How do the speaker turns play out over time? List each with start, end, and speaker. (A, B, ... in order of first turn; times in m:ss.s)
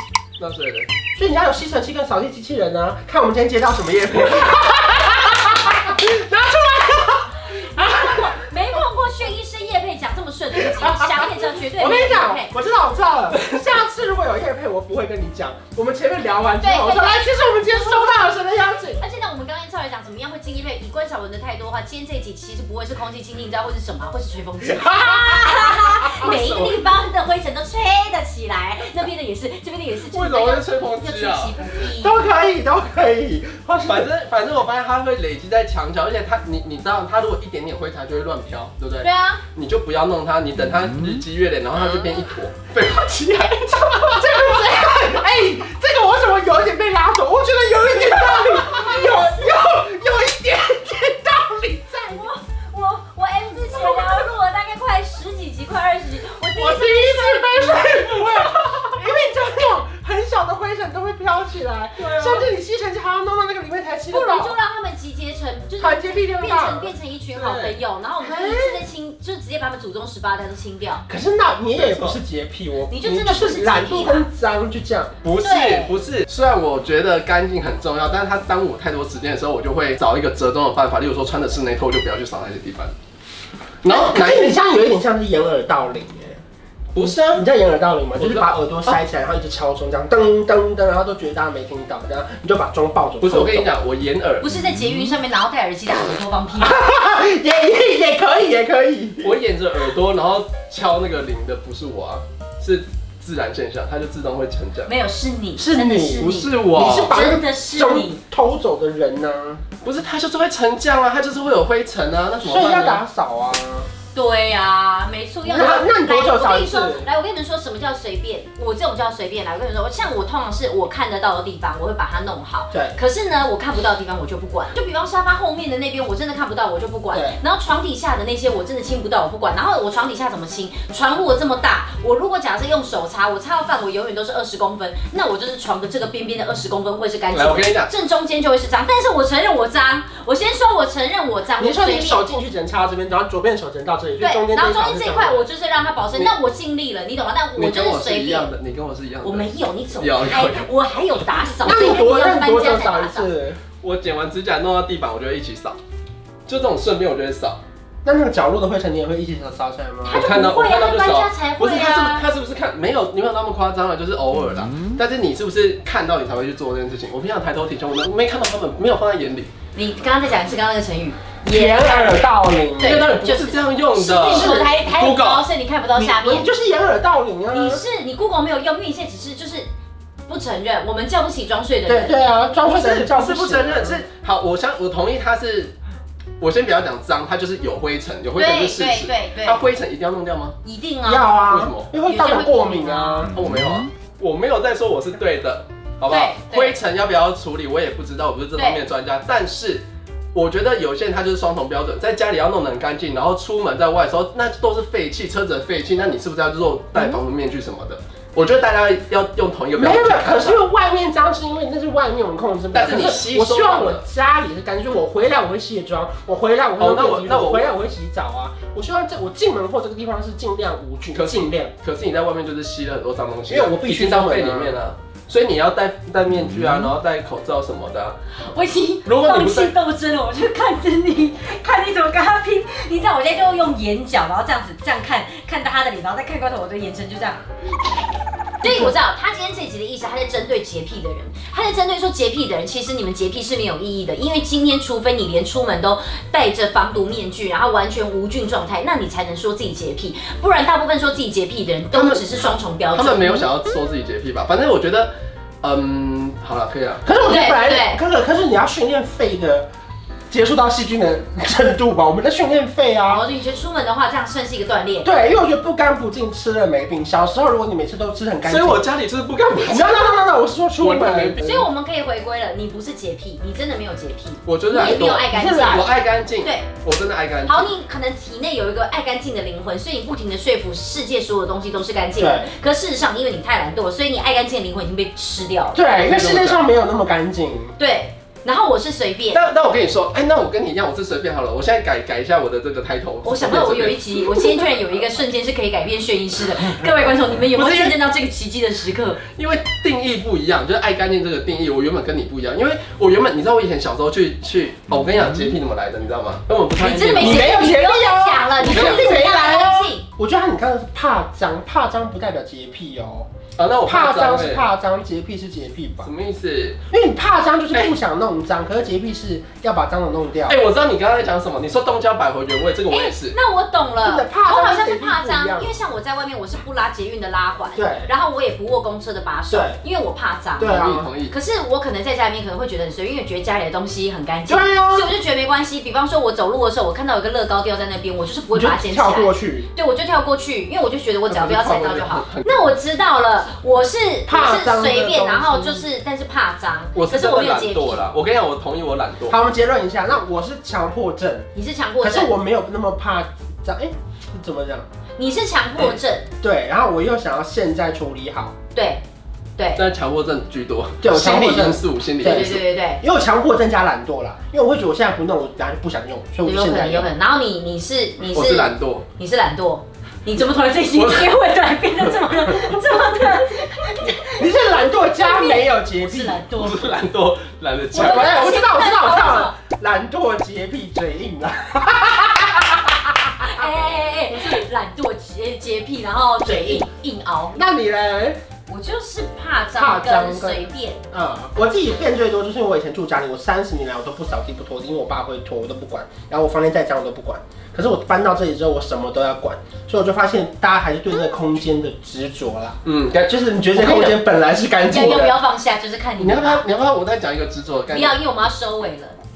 0:00.4-0:00.9 A
0:01.2-0:08.4 B
0:07.5-0:12.5 C
0:10.6-0:19.0 B
0:16.6-0:18.4 C
0:18.9-0:32.3 C
0:24.6-0:26.4 B
0:26.2-0:26.8 A
0:30.0-0:31.6 A
0:31.8-0:34.1 B
0:33.8-0:44.5 A
0:39.0-0:39.4 C
0:44.0-0:52.3 B
0:48.6-0:49.4 C
0:52.1-0:58.2 C
0:53.7-0:54.2 B
0:56.6-1:04.6 B
1:04.1-1:11.0 C
1:05.8-1:08.8 B
1:11.1-1:15.2 B
1:11.8-1:12.2 A
1:12.9-1:14.3 C
1:15.2-1:22.9 A
1:15.4-1:16.0 C
1:23.8-1:24.6 A
1:23.8-1:26.4 B
1:26.9-1:27.4 A
1:27.0-1:33.7 B
1:28.2-1:29.0 A
1:33.2-1:34.5 A
1:34.4-1:36.8 C
1:36.6-1:39.3 B
1:39.2-1:44.9 A
1:44.9-1:48.2 C
1:45.6-1:49.6 B
1:46.2-1:47.2 A
1:49.8-1:53.0 A
1:52.4-1:53.9 B
1:54.1-2:22.3 C
1:55.4-1:57.1 B
2:02.7-2:03.0 B
2:07.1-2:07.4 B
2:17.3-2:17.9 A
2:21.6-2:25.4 B
2:24.2-2:28.5 C
2:27.6-2:30.7 A
2:29.2-2:33.3 C
2:31.6-2:33.6 B
2:33.8-2:35.8 A
2:36.5-2:37.6 A
2:38.0-2:40.3 B
2:40.0-2:42.3 C
2:40.1-2:49.5 A
2:49.8-2:52.3 C
2:51.5-2:53.0 B
2:52.8-2:56.5 C
2:52.8-2:55.5 A
2:54.2-2:54.8 B
2:56.0-2:57.8 B
2:57.5-2:59.7 C
3:00.3-3:02.2 C
3:01.9-3:04.0 B
3:02.6-3:05.8 A
3:06.4-3:10.6 A
3:08.4-3:09.6 C
3:10.6-3:11.4 C
3:11.0-3:13.3 B
3:11.5-3:11.9 A
3:12.0-3:13.3 C
3:13.3-3:30.6 A
3:16.1-3:16.8 C
3:18.6-3:18.8 C
3:29.8-3:41.7 B
3:32.7-3:34.0 A
3:36.8-3:37.7 A
3:41.1-3:48.2 A
3:43.5-3:44.8 B
3:48.4-3:57.4 C
3:49.1-3:49.7 A
3:58.6-4:13.5 C
3:58.6-3:58.9 B
4:11.9-4:12.3 A
4:12.9-4:17.0 A
4:17.0-4:19.7 B
4:17.2-4:18.0 C
4:20.3-4:23.2 B
4:23.1-4:25.1 C
4:25.0-4:28.8 B
4:28.4-4:30.2 A
4:29.6-4:31.6 B
4:30.8-4:31.6 A
4:31.4-4:36.7 C
4:34.5-4:37.7 A
4:34.7-4:36.0 B
4:37.4-4:45.8 C
4:42.2-4:42.5 B
4:45.7-4:47.8 B
4:45.9-4:46.7 A
4:47.8-4:49.4 C
4:49.3-4:54.8 A
4:53.2-4:59.2 C
4:56.8-4:58.0 A
4:59.2-5:07.6 A
5:06.8-5:10.1 C
5:07.2-5:13.3 B
5:08.6-5:09.1 A
5:13.6-5:14.7 A
5:13.8-5:16.1 B
5:16.0-5:16.8 A
5:16.9-5:20.6 B
5:20.5-5:23.4 A
5:22.9-5:48.1 C
5:24.0-5:25.7 B
5:27.8-5:28.1 B
5:29.5-5:29.8 B
5:30.6-5:31.1 B
5:30.6-5:31.3 A
5:34.5-5:35.1 B
5:38.5-5:39.7 B
5:41.3-5:42.7 A
5:44.3-5:45.8 B
5:47.0-5:49.4 A
5:49.3-5:51.5 B
5:51.6-5:52.3 C
5:52.0-5:54.9 B
5:55.2-5:56.3 C
5:55.8-5:58.6 B
5:58.7-5:59.0 C
5:59.8-6:02.6 A
6:01.0-6:07.1 B
6:02.2-6:03.0 C
6:06.4-6:16.9 C
6:08.3-6:09.0 A
6:10.9-6:11.4 A
6:14.3-6:16.4 B
6:16.6-6:18.6 A
6:17.9-6:23.6 B
6:17.9-6:19.6 C
6:23.4-6:27.6 C
6:26.4-6:26.9 B
6:27.5-6:28.4 B
6:28.7-6:31.0 C
6:29.8-6:45.4 B
6:42.8-6:44.2 A
6:44.9-6:46.6 C
6:45.0-6:45.3 A
6:46.2-6:48.2 A
6:47.9-6:49.2 C